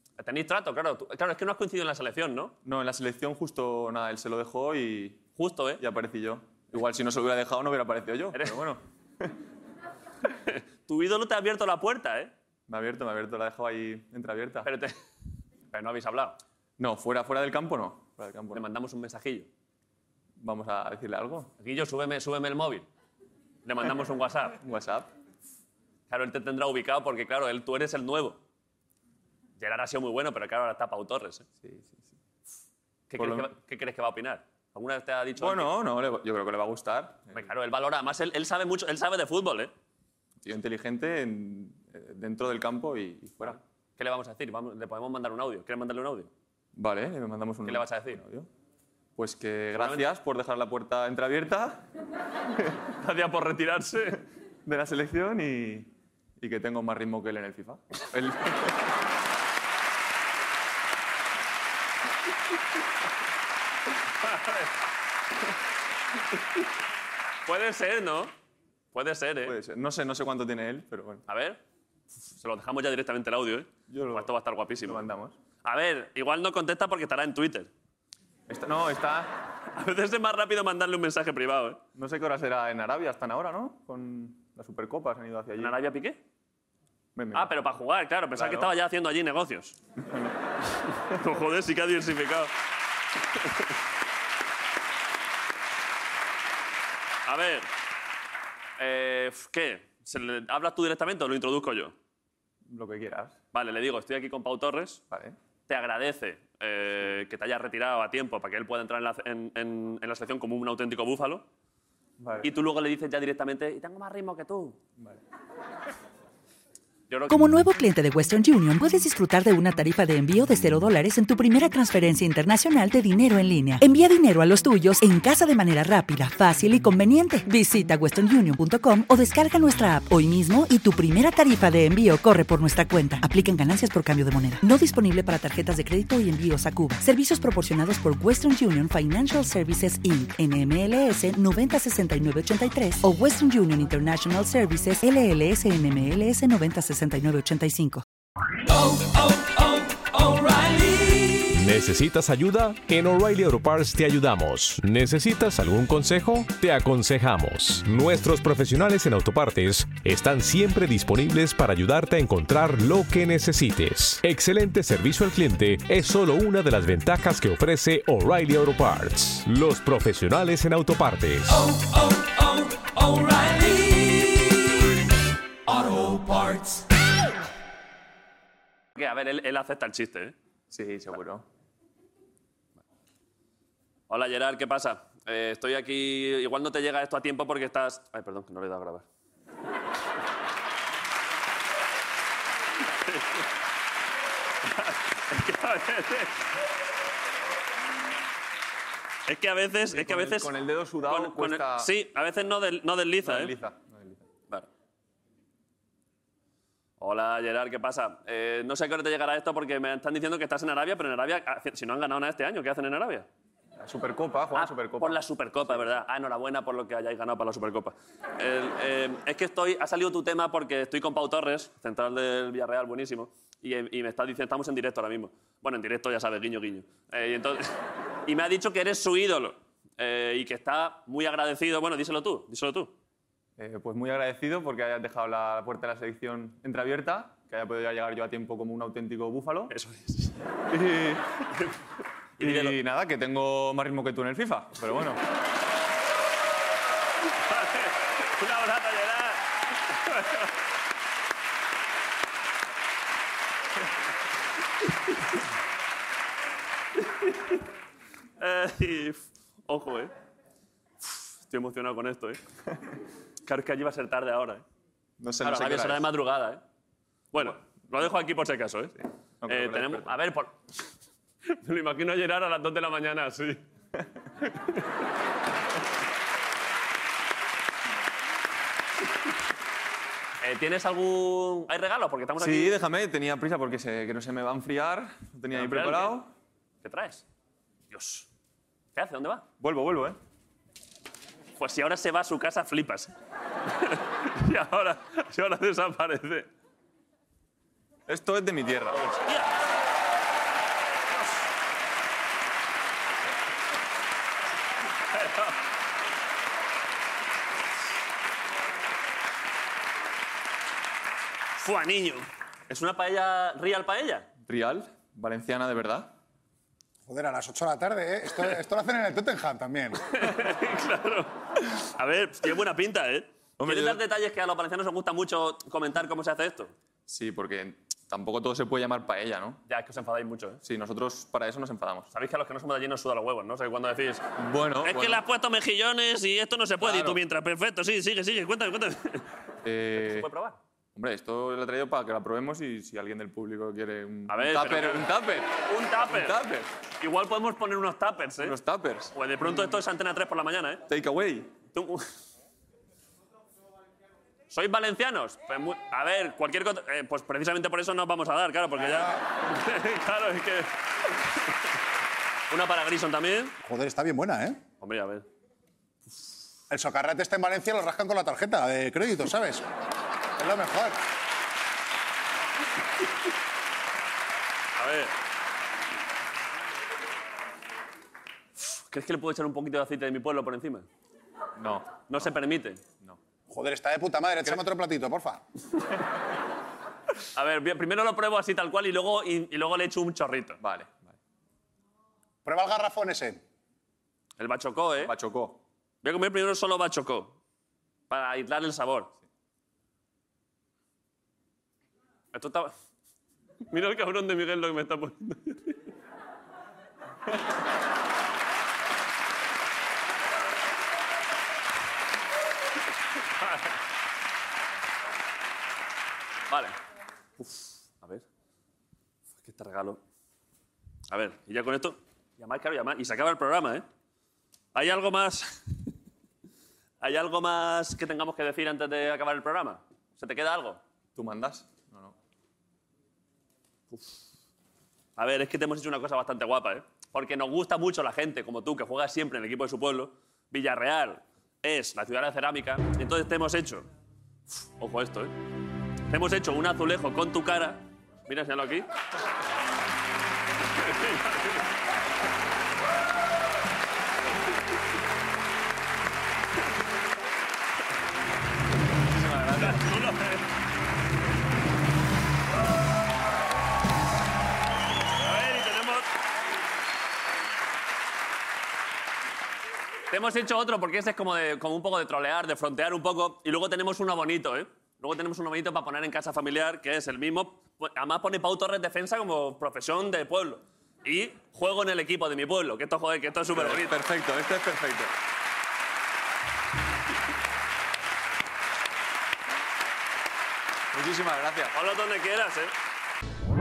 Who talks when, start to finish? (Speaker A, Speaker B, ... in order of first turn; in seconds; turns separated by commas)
Speaker A: 0.2-2.5, Speaker B: 2.6-5.2, Speaker A: 5.4-5.8, Speaker B: 5.8-9.3, Speaker A: 8.3-8.6, Speaker A: 10.5-12.3, Speaker B: 12.7-14.7, Speaker A: 14.7-14.9, Speaker A: 15.7-16.4, Speaker B: 16.8-18.6, Speaker A: 18.5-19.5, Speaker B: 20.4-21.5, Speaker A: 21.6-22.9, Speaker A: 23.6-24.6, Speaker B: 24.6-25.1, Speaker A: 26.1-28.4, Speaker A: 29.6-31.4, Speaker B: 31.6-32.1, Speaker A: 33.1-35.7, Speaker B: 33.2-33.5, Speaker B: 35.4-37.5, Speaker A: 37.3-39.7, Speaker B: 40.4-43.6, Speaker A: 43.4-46.3, Speaker B: 46.8-48.5, Speaker A: 47.6-48.2, Speaker B: 49.2-51.8, Speaker A: 49.8-50.0, Speaker A: 53.0-54.2, Speaker B: 54.6-58.9, Speaker A: 64.2-64.7, Speaker A: 67.5-68.3, Speaker A: 68.9-69.6, Speaker B: 69.4-71.2, Speaker A: 71.3-71.6, Speaker A: 72.3-75.1, Speaker B: 73.9-75.3, Speaker A: 75.6-77.7, Speaker B: 78.5-79.3, Speaker A: 79.7-81.8, Speaker B: 82.0-85.8, Speaker A: 85.6-86.2, Speaker B: 87.2-87.5, Speaker A: 87.3-89.8, Speaker B: 88.3-88.7, Speaker B: 90.0-90.3, Speaker A: 90.9-92.5, Speaker A: 97.2-97.7, Speaker A: 98.8-101.9, Speaker B: 102.7-103.3, Speaker A: 103.5-105.0, Speaker A: 105.7-111.5, Speaker B: 112.2-112.5, Speaker A: 112.4-114.8, Speaker A: 117.1-117.4, Speaker C: 117.3-148.0, Speaker D: 151.5-171.6, Speaker A: 178.9-180.3, Speaker B: 180.7-181.4, Speaker A: 184.1-189.1, Speaker A: 194.8-196.3, Speaker A: 199.3-200.5, Speaker B: 199.9-201.9, Speaker A: 201.1-203.6, Speaker B: 203.2-204.2, Speaker A: 207.0-213.3, Speaker B: 213.8-216.0, Speaker A: 214.6-227.7, Speaker A: 228.3-232.9, Speaker B: 233.6-239.7, Speaker A: 239.7-240.4, Speaker B: 240.7-241.5, Speaker A: 242.4-242.8, Speaker B: 242.4-245.2, Speaker A: 247.5-249.5, Speaker A: 250.1-250.5, Speaker A: 258.4-260.1, Speaker A: 261.1-262.4, Speaker A: 263.4-264.6, Speaker B: 265.2-266.1, Speaker A: 265.4-266.6, Speaker A: 267.3-268.9, Speaker B: 269.4-270.2, Speaker A: 269.5-270.6, Speaker A: 271.6-273.6, Speaker A: 280.4-282.8, Speaker B: 282.4-286.3, Speaker A: 285.5-286.2, Speaker A: 286.8-287.2, Speaker A: 287.9-288.3, Speaker A: 288.9-289.4, Speaker B: 289.6-290.2, Speaker A: 291.6-293.1, Speaker A: 293.8-296.5, Speaker B: 298.1-299.1, Speaker A: 298.9-299.5, Speaker A: 305.1-305.6, Speaker A: 311.6-314.3, Speaker B: 314.5-316.1, Speaker E: 317.1-320.0, Speaker A: 320.1-326.7, Speaker B: 323.6-324.0, Speaker B: 327.1-329.6, Speaker A: 329.7-330.6, Speaker B: 330.6-332.1, Speaker A: 332.1-334.2, Speaker B: 334.4-335.2, Speaker A: 334.8-339.2, Speaker B: 336.8-337.2, Speaker B: 339.6-340.3, Speaker A: 340.0-340.6, Speaker B: 340.9-345.5, Speaker A: 344.3-345.1, Speaker A: 345.7-346.4, Speaker B: 346.0-346.7, Speaker A: 347.0-348.6, Speaker B: 348.4-349.8, Speaker A: 349.1-350.8, Speaker B: 350.9-351.5, Speaker A: 351.7-352.1, Speaker A: 354.5-360.7, Speaker A: 362.5-363.6, Speaker E: 363.6-364.6, Speaker A: 364.8-365.2, Speaker E: 366.7-369.7, Speaker E: 370.4-371.0, Speaker A: 374.8-375.1, Speaker A: 378.6-380.9, Speaker B: 381.6-382.4, Speaker A: 382.1-382.8, Speaker E: 383.5-385.4, Speaker A: 387.4-390.6, Speaker B: 390.6-391.1, Speaker E: 392.4-393.4, Speaker A: 394.4-395.1, Speaker B: 395.0-395.6, Speaker A: 396.0-397.4, Speaker A: 398.1-399.1, Speaker A: 402.3-402.7, Speaker A: 403.7-405.8, Speaker A: 413.4-413.7, Speaker A: 416.5-416.8, Speaker A: 417.4-418.2, Speaker A: 419.4-420.0, Speaker A: 421.1-423.9, Speaker A: 424.8-425.6, Speaker A: 427.0-430.8, Speaker B: 431.1-432.1, Speaker A: 435.2-443.9, Speaker A: 444.8-445.4, Speaker A: 446.1-448.9, Speaker A: 450.8-451.6, Speaker B: 459.1-459.9, Speaker A: 459.6-460.4, Speaker A: 465.2-466.1, Speaker A: 470.1-484.0, Speaker B: 483.5-485.1, Speaker B: 490.9-491.8, Speaker A: 491.7-492.7